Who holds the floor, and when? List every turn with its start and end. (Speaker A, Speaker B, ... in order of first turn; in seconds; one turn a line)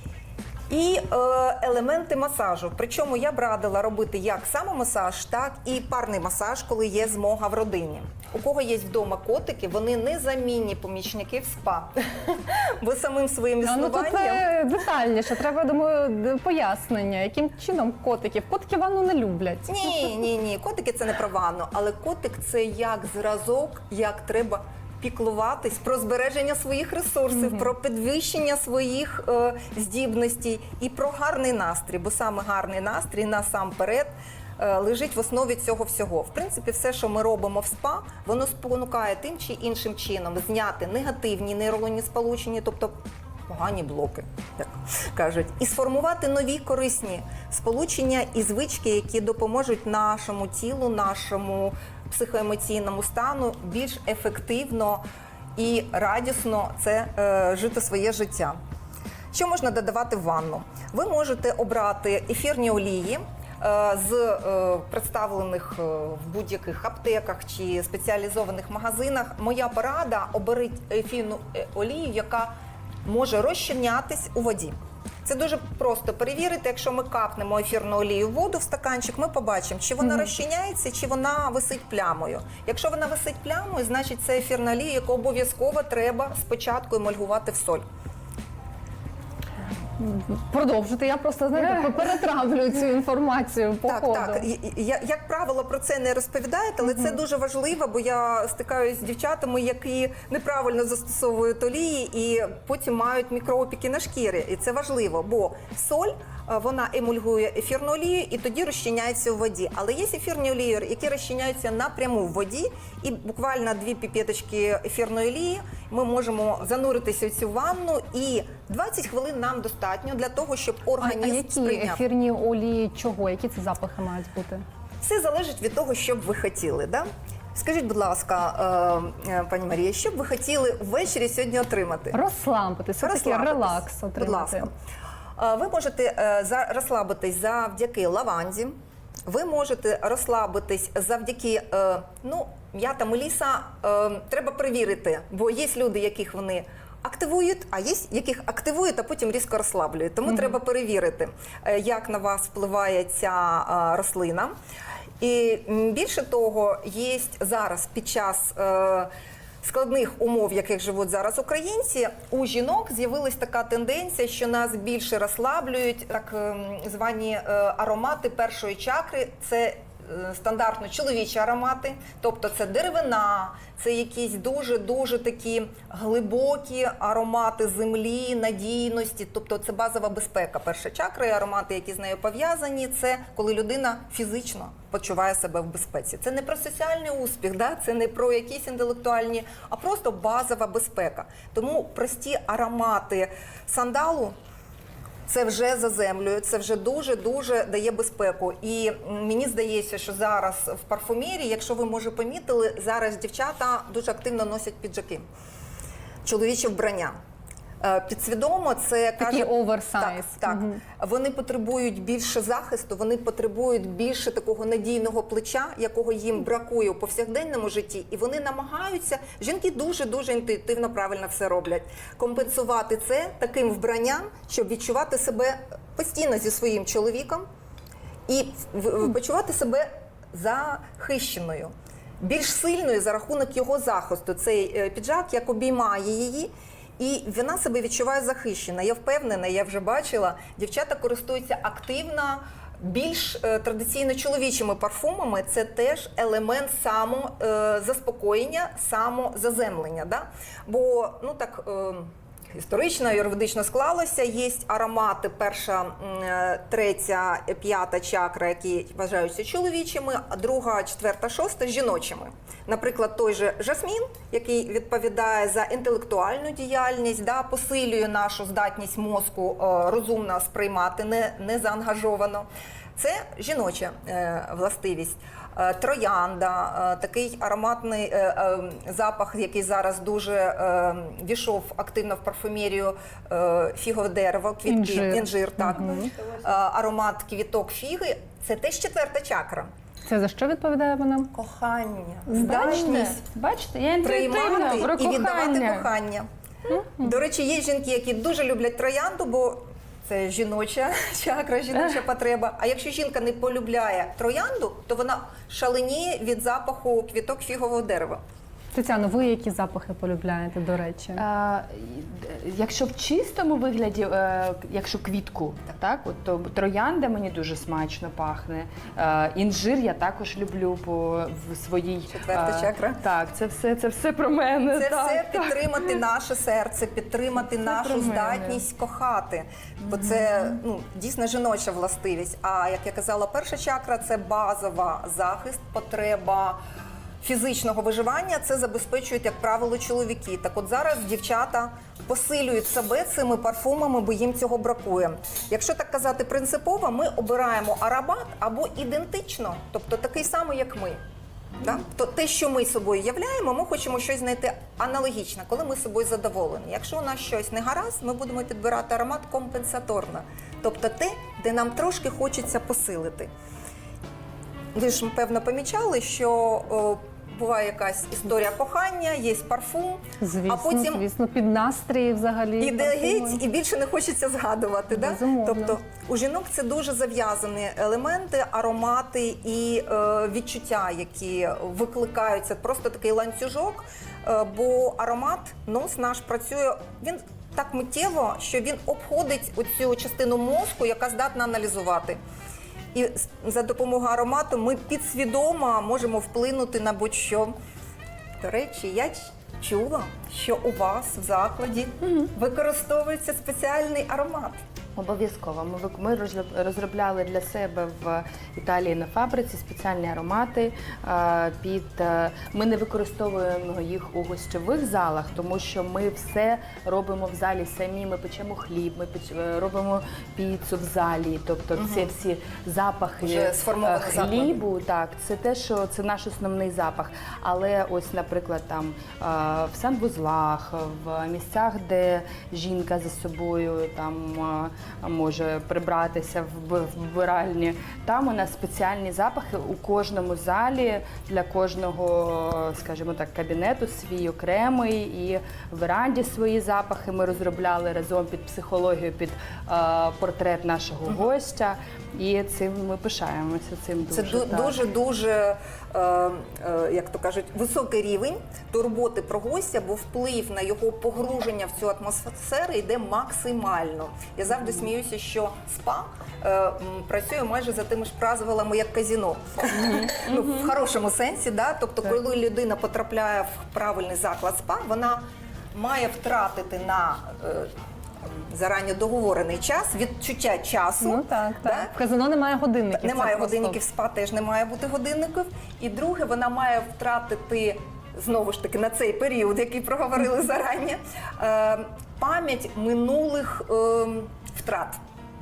Speaker A: 0.7-14.5
Speaker B: 13.6-20.1
Speaker A: 19.7-43.0
Speaker B: 27.4-27.7
Speaker A: 43.5-55.0
Speaker A: 55.6-58.6
Speaker A: 59.3-72.5
Speaker A: 73.1-87.8
Speaker B: 90.0-94.5
Speaker A: 93.9-122.0
Speaker B: 121.0-124.6
Speaker A: 125.0-132.2
Speaker B: 132.1-134.7
Speaker A: 133.0-134.7
Speaker A: 135.4-138.7
Speaker A: 139.3-154.5
Speaker A: 155.2-159.1
Speaker A: 159.6-194.3
Speaker A: 195.3-205.2
Speaker A: 206.2-207.1
Speaker A: 207.8-227.4
Speaker B: 209.2-210.8
Speaker A: 228.3-289.7
Speaker B: 284.7-286.1
Speaker C: 285.7-286.6
Speaker B: 290.1-291.3
Speaker A: 291.3-293.2
Speaker B: 292.3-293.1
Speaker C: 292.4-295.9
Speaker A: 294.0-308.2
Speaker B: 308.7-311.2
Speaker C: 311.2-326.0
Speaker A: 322.1-323.0
Speaker A: 324.7-336.6
Speaker C: 327.4-328.6
Speaker A: 337.2-351.0
Speaker A: 351.6-363.3
Speaker A: 364.7-371.0
Speaker B: 370.2-373.4
Speaker A: 372.6-392.2
Speaker B: 374.9-375.8
Speaker A: 392.9-397.6
Speaker A: 398.4-404.6
Speaker C: 405.0-454.8
Speaker A: 421.8-422.1
Speaker A: 423.2-424.6
Speaker A: 454.1-477.7
Speaker C: 470.3-470.7
Speaker A: 478.4-481.9
Speaker B: 481.0-483.8
Speaker A: 482.9-495.0